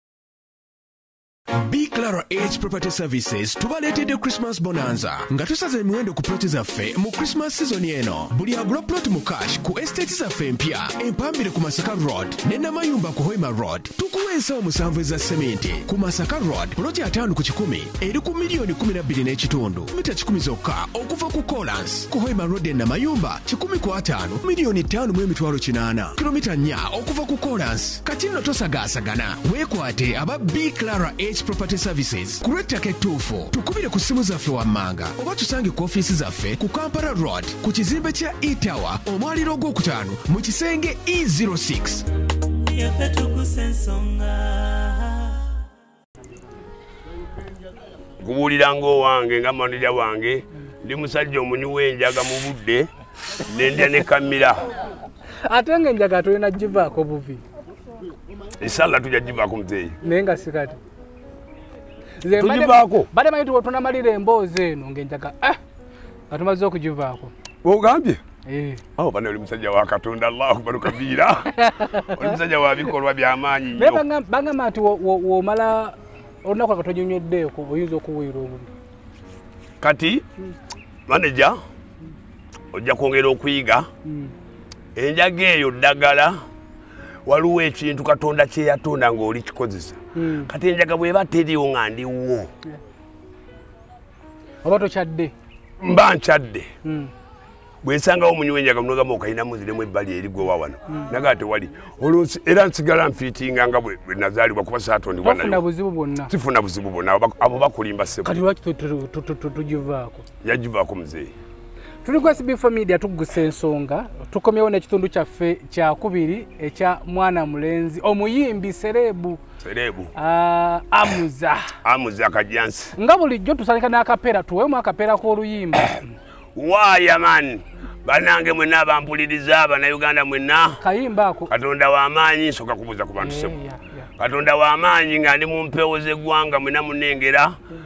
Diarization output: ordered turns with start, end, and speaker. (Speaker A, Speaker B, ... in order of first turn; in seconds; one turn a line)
Speaker A: 1.5-42.0
Speaker B: 42.6-45.4
Speaker C: 48.2-54.6
Speaker D: 55.4-57.4
Speaker C: 58.6-60.0
Speaker D: 60.0-60.8
Speaker D: 62.2-65.6
Speaker C: 62.3-63.1
Speaker D: 66.3-67.3
Speaker C: 67.6-68.2
Speaker D: 68.5-68.8
Speaker C: 69.0-74.0
Speaker D: 71.5-72.3
Speaker D: 73.7-78.7
Speaker C: 79.8-80.3
Speaker C: 81.1-81.6
Speaker C: 82.7-83.9
Speaker D: 84.0-84.3
Speaker C: 85.0-86.4
Speaker C: 87.2-92.5
Speaker D: 90.1-90.5
Speaker D: 94.6-95.3
Speaker C: 95.8-96.7
Speaker D: 96.8-97.1
Speaker C: 97.8-105.6
Speaker D: 105.2-106.3
Speaker C: 106.3-108.4
Speaker D: 108.2-110.2
Speaker C: 110.4-111.3
Speaker D: 112.0-119.4
Speaker C: 119.6-120.1
Speaker D: 120.2-121.8
Speaker C: 121.8-123.0
Speaker D: 123.0-126.2
Speaker C: 126.5-130.8
Speaker D: 130.8-131.5
Speaker C: 131.5-133.6
Speaker D: 133.2-134.1
Speaker C: 134.2-137.6